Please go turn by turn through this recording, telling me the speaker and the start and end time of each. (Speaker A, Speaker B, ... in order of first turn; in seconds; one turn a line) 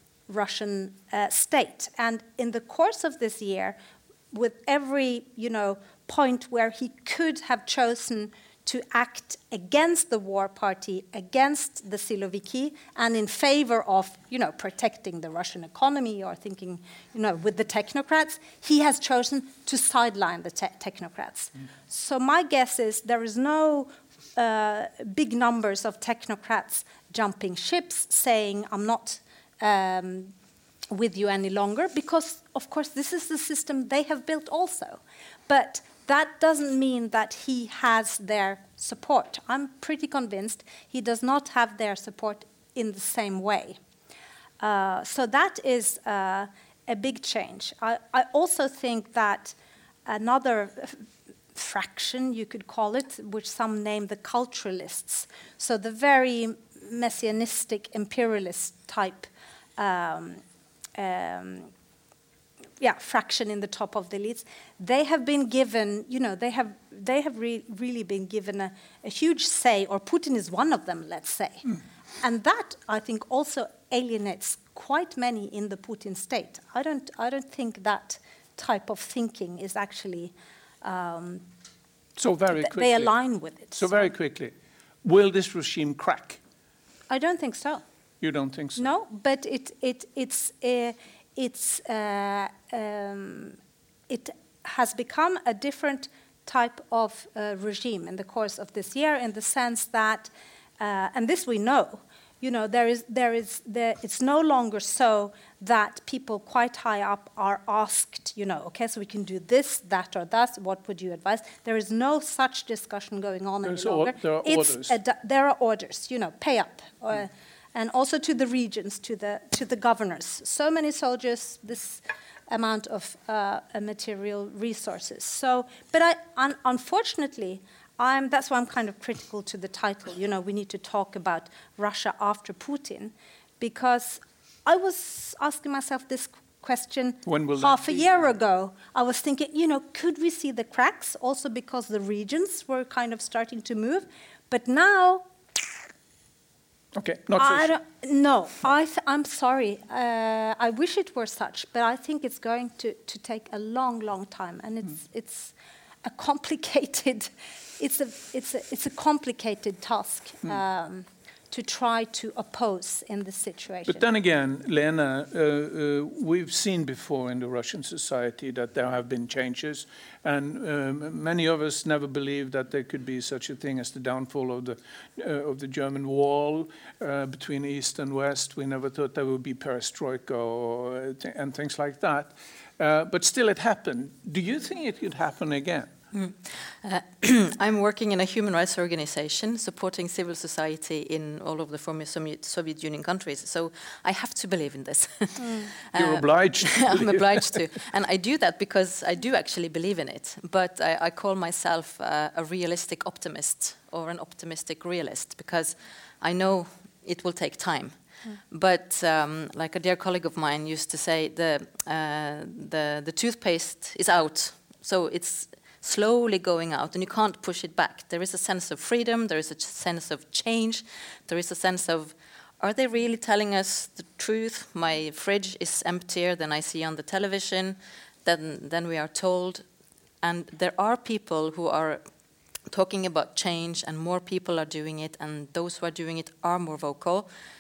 Speaker A: 0.3-3.8
Speaker A: 4.3-30.3
Speaker A: 30.9-43.8
Speaker A: 44.6-60.4
Speaker A: 61.0-61.7
Speaker A: 62.8-71.7
Speaker A: 72.2-81.5
Speaker B: 82.2-83.2
Speaker A: 82.5-84.1
Speaker B: 83.7-84.5
Speaker B: 85.0-86.4
Speaker A: 87.1-87.8
Speaker B: 88.2-88.9
Speaker A: 88.8-93.6
Speaker A: 94.1-145.2
Speaker B: 113.6-115.0
Speaker B: 137.3-138.2
Speaker B: 146.9-147.7
Speaker A: 147.4-155.5
Speaker A: 156.0-164.0
Speaker B: 163.9-185.9
Speaker C: 186.1-229.7
Speaker A: 195.4-195.7
Speaker B: 195.9-197.7
Speaker C: 230.2-232.0
Speaker C: 232.7-237.3